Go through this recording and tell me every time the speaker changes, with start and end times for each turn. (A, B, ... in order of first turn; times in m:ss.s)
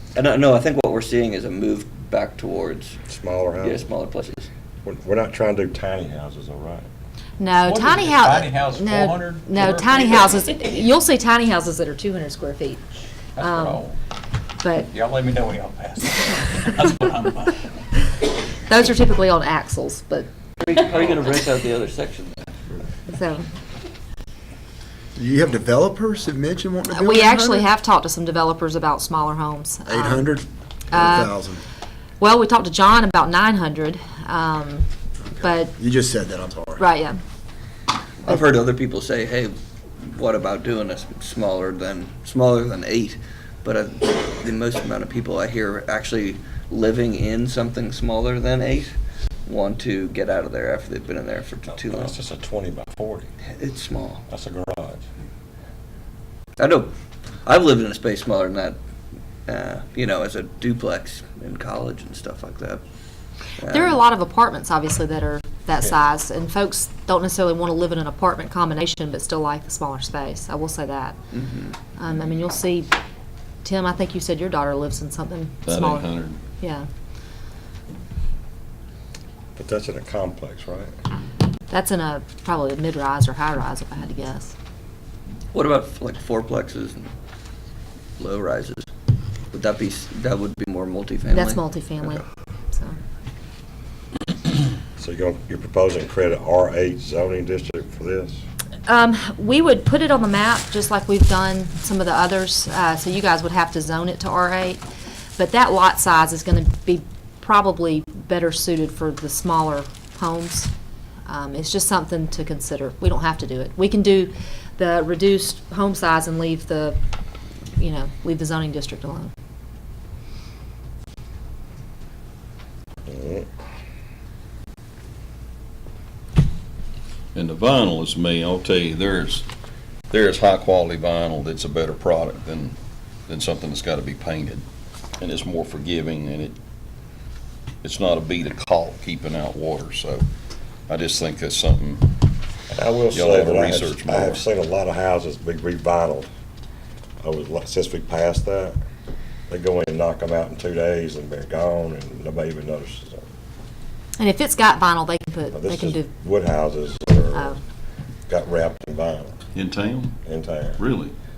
0:00.2-0:03.0 A
0:03.1-0:03.9 B
0:03.6-0:04.5 A
0:04.8-0:06.9 B
0:07.4-0:12.8 C
0:07.5-0:10.8 D
0:13.4-0:14.0 D
0:13.4-0:13.8 C
0:14.6-0:14.9 C
0:14.9-0:17.9 D
0:18.7-0:20.3 C
0:20.6-0:22.5 A
0:20.9-0:21.3 D
0:22.5-0:22.8 D
0:23.1-0:23.4 C
0:25.2-0:27.7 E
0:26.9-0:30.3 C
0:29.9-0:31.6 E
0:30.9-0:31.3 C
0:32.2-0:34.8 C
0:35.4-0:35.7 C
0:35.8-0:36.9 E
0:36.8-0:37.2 C
0:38.2-0:48.9 A
0:49.5-0:52.2 A
0:51.7-0:53.3 B
0:53.6-0:54.2 A
0:54.3-0:55.0 B
0:56.6-0:56.9 A
0:57.4-0:58.8 A
0:59.5-1:02.8 A
1:03.6-1:04.0 A
1:03.7-1:11.1 C
1:11.3-1:11.8 A
1:12.0-1:12.9 C
1:13.6-1:16.1 C
1:15.6-1:16.4 F
1:16.6-1:16.9 C
1:19.6-1:20.9 B
1:21.7-1:24.5 C
1:25.5-1:27.1 A
1:28.2-1:28.9 A
1:29.5-1:31.6 A
1:31.3-1:32.2 C
1:35.0-1:38.4 B
1:38.9-1:44.8 C
1:45.4-1:50.7 C
1:51.3-1:57.0 C
1:57.8-1:59.3 C
2:03.1-2:03.5 B
2:07.4-2:09.5 F
2:10.1-2:12.8 F
2:13.3-2:14.6 F
2:15.2-2:16.6 F
2:17.8-2:20.3 F
2:20.9-2:22.1 F
2:22.7-2:26.3 B
2:23.1-2:24.4 F
2:27.2-2:28.8 B
2:29.5-2:33.2 B
2:34.2-2:36.0 C
2:35.5-2:37.6 B
2:38.3-2:39.4 B
2:39.6-2:40.2 F
2:40.2-2:40.8 B
2:40.8-2:41.1 F